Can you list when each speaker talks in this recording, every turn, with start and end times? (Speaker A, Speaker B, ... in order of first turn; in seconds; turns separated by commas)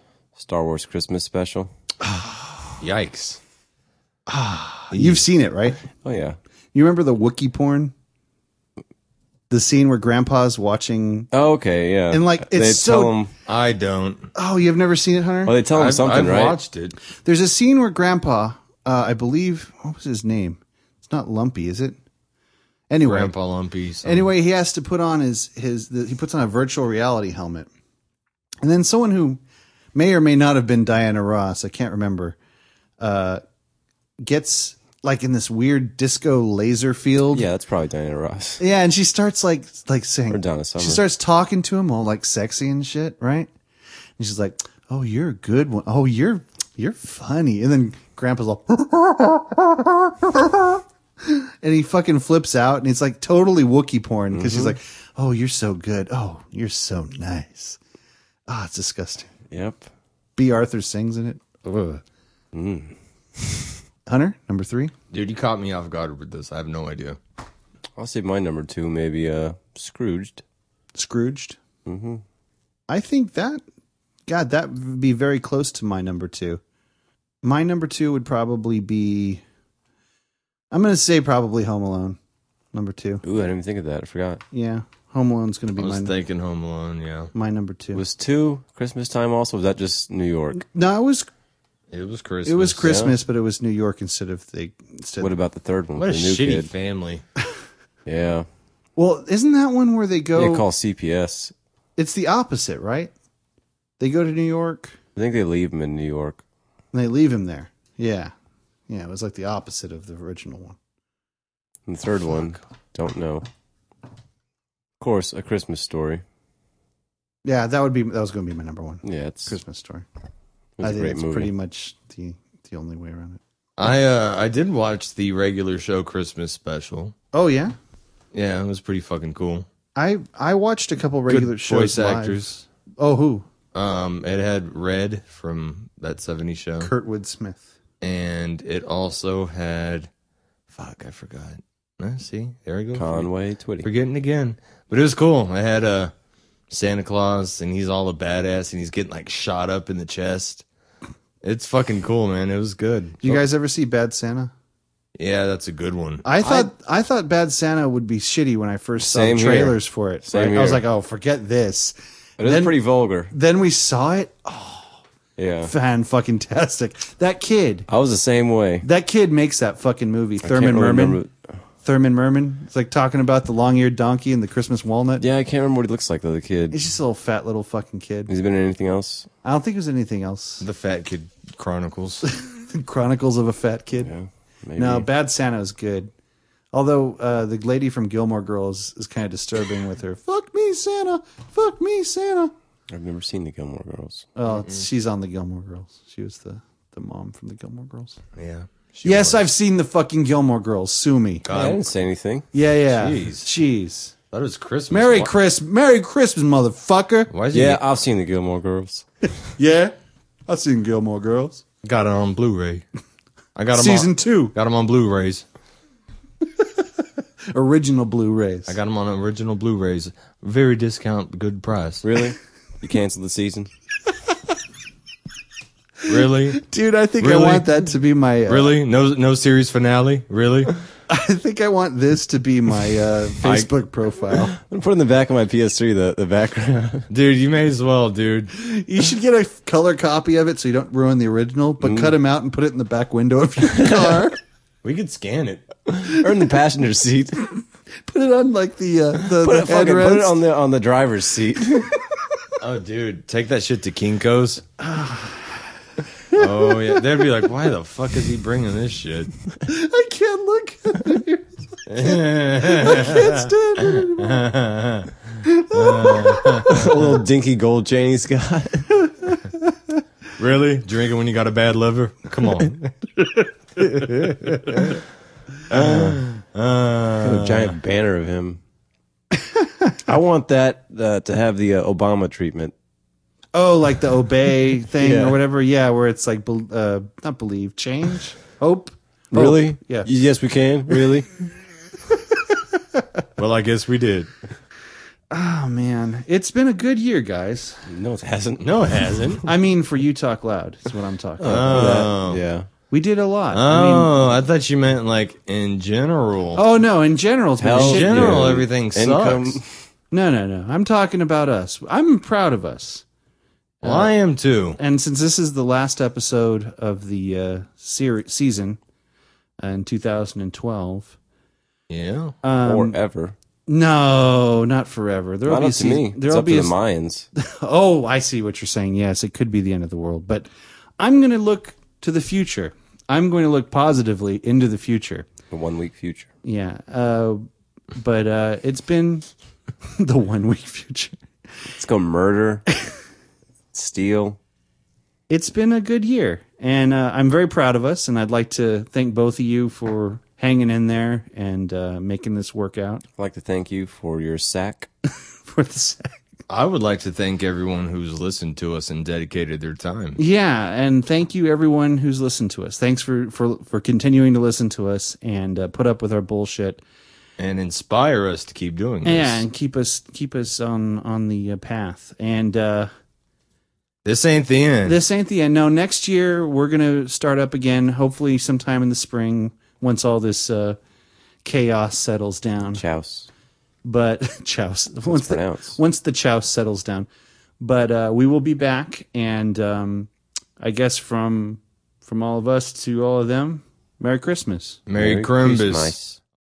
Speaker A: 0.3-1.7, Speaker B: 2.0-2.8, Speaker C: 2.8-3.4, Speaker B: 4.3-5.8, Speaker C: 4.9-5.2, Speaker A: 5.9-6.4, Speaker B: 6.7-7.9, Speaker B: 9.5-11.3, Speaker A: 11.3-13.3, Speaker B: 12.1-13.1, Speaker C: 13.5-14.3, Speaker B: 14.3-15.6, Speaker A: 15.5-16.6, Speaker C: 15.7-17.0, Speaker B: 17.2-22.0, Speaker B: 22.9-23.3, Speaker C: 23.0-24.3, Speaker B: 24.0-27.7, Speaker B: 28.6-29.4, Speaker B: 29.9-32.4, Speaker B: 33.0-33.4, Speaker B: 34.2-37.5, Speaker A: 37.3-38.6, Speaker B: 38.6-43.5, Speaker A: 40.3-41.0, Speaker B: 44.2-57.8, Speaker A: 54.3-54.8, Speaker B: 58.5-59.3, Speaker A: 59.5-59.8, Speaker B: 60.4-62.0, Speaker A: 62.5-63.7, Speaker B: 64.1-64.9, Speaker C: 65.1-67.2, Speaker A: 68.0-70.4, Speaker B: 70.9-71.6, Speaker A: 71.9-72.2, Speaker B: 72.9-73.6, Speaker B: 74.3-76.6, Speaker B: 77.4-79.4, Speaker B: 80.7-82.2, Speaker B: 82.7-83.2, Speaker A: 83.2-84.4, Speaker B: 84.5-86.1, Speaker C: 85.8-87.3, Speaker B: 87.3-88.0, Speaker A: 87.9-90.7, Speaker B: 90.7-91.3, Speaker C: 91.9-92.9, Speaker B: 92.5-95.3, Speaker A: 92.8-93.1, Speaker A: 95.2-96.7, Speaker C: 96.0-97.2, Speaker A: 98.1-98.5, Speaker B: 99.0-100.7, Speaker A: 100.3-101.5, Speaker B: 102.0-103.1, Speaker B: 104.0-105.0, Speaker A: 105.2-106.4, Speaker B: 106.9-108.3, Speaker B: 108.9-110.8, Speaker A: 111.9-113.5, Speaker A: 115.0-116.2, Speaker B: 117.4-120.1, Speaker A: 119.0-119.5, Speaker A: 120.8-121.5, Speaker B: 120.8-123.4, Speaker C: 123.8-127.1, Speaker B: 127.3-127.8, Speaker C: 128.3-129.7, Speaker B: 129.9-132.5, Speaker C: 131.3-132.6, Speaker B: 133.0-133.5, Speaker C: 133.7-136.9, Speaker B: 136.8-137.7, Speaker C: 138.0-140.1, Speaker C: 140.7-143.3, Speaker A: 142.9-143.9, Speaker C: 143.8-146.1, Speaker C: 146.7-150.6, Speaker C: 151.4-153.2, Speaker B: 153.2-154.5, Speaker C: 155.2-156.3, Speaker B: 156.2-162.8, Speaker A: 156.4-156.7, Speaker A: 159.0-160.8, Speaker A: 162.4-163.3, Speaker B: 163.3-165.0, Speaker A: 165.4-165.7, Speaker B: 165.7-167.9, Speaker A: 167.9-168.9, Speaker B: 168.8-171.2, Speaker A: 170.4-171.3, Speaker B: 171.8-175.2, Speaker A: 175.2-176.8, Speaker B: 176.7-178.3, Speaker A: 178.3-179.3, Speaker B: 179.4-180.6, Speaker C: 180.6-182.3, Speaker B: 182.2-184.1, Speaker A: 184.0-185.1, Speaker B: 184.8-186.1, Speaker B: 186.7-192.5, Speaker A: 192.9-194.3, Speaker B: 194.4-198.2, Speaker C: 194.5-194.8, Speaker C: 198.4-199.4, Speaker B: 199.0-201.5, Speaker C: 201.5-201.8, Speaker A: 201.5-202.5, Speaker B: 202.5-204.1, Speaker C: 202.9-203.5, Speaker C: 204.3-205.3, Speaker B: 204.9-207.3, Speaker C: 207.3-207.8, Speaker A: 207.5-209.1, Speaker B: 209.5-209.9, Speaker B: 210.5-211.6, Speaker C: 211.8-212.8, Speaker C: 213.6-215.4, Speaker B: 213.8-214.5, Speaker B: 217.5-218.8, Speaker C: 218.7-222.0, Speaker A: 222.0-223.7, Speaker C: 226.1-226.7, Speaker B: 226.1-228.8, Speaker C: 227.2-227.8, Speaker C: 228.5-230.7, Speaker B: 231.1-234.6, Speaker A: 234.5-237.1, Speaker C: 237.1-238.5, Speaker B: 238.5-244.4, Speaker A: 241.8-242.1, Speaker A: 243.7-244.2, Speaker C: 244.8-245.7, Speaker A: 245.9-247.4, Speaker B: 248.0-250.4, Speaker A: 249.2-251.9, Speaker B: 251.8-252.4, Speaker C: 252.6-254.6, Speaker B: 254.8-255.7, Speaker B: 256.3-257.0, Speaker C: 256.3-259.3, Speaker B: 259.6-264.5, Speaker C: 261.9-265.1, Speaker B: 265.4-267.0, Speaker C: 265.7-266.9, Speaker A: 266.6-269.0, Speaker C: 270.4-272.9, Speaker C: 273.8-275.0, Speaker C: 275.7-277.8, Speaker A: 275.7-276.2, Speaker A: 277.2-278.6, Speaker A: 280.1-282.7, Speaker B: 283.5-290.1, Speaker A: 285.0-285.4, Speaker A: 289.3-291.3, Speaker B: 292.1-293.2, Speaker C: 293.4-294.3, Speaker B: 295.3-297.8, Speaker A: 297.9-298.9, Speaker C: 298.6-299.5, Speaker B: 299.5-302.1, Speaker A: 301.4-302.7, Speaker C: 301.4-302.4, Speaker B: 302.9-304.4, Speaker C: 303.5-306.6, Speaker B: 306.6-308.5, Speaker A: 307.6-309.9, Speaker C: 307.8-309.6, Speaker B: 310.1-313.1, Speaker B: 313.8-314.1, Speaker C: 313.8-314.8, Speaker B: 314.8-318.8, Speaker B: 319.6-321.1, Speaker C: 321.9-322.4, Speaker B: 322.4-323.0, Speaker A: 322.6-323.4, Speaker B: 323.7-326.8, Speaker A: 325.5-327.3, Speaker B: 327.4-335.3, Speaker A: 335.5-336.3, Speaker B: 336.4-339.3, Speaker B: 339.9-341.2, Speaker A: 341.7-342.7, Speaker A: 343.7-344.4, Speaker B: 345.3-353.0, Speaker A: 353.2-354.9, Speaker B: 355.4-356.2, Speaker C: 356.5-360.2, Speaker B: 360.2-366.8, Speaker C: 367.4-369.4, Speaker B: 369.1-372.9, Speaker C: 374.1-375.0, Speaker B: 374.9-380.8, Speaker B: 381.4-382.8, Speaker A: 382.7-383.3, Speaker B: 383.9-387.1, Speaker A: 385.1-385.8, Speaker B: 387.6-394.8, Speaker C: 394.9-396.0, Speaker A: 394.9-396.2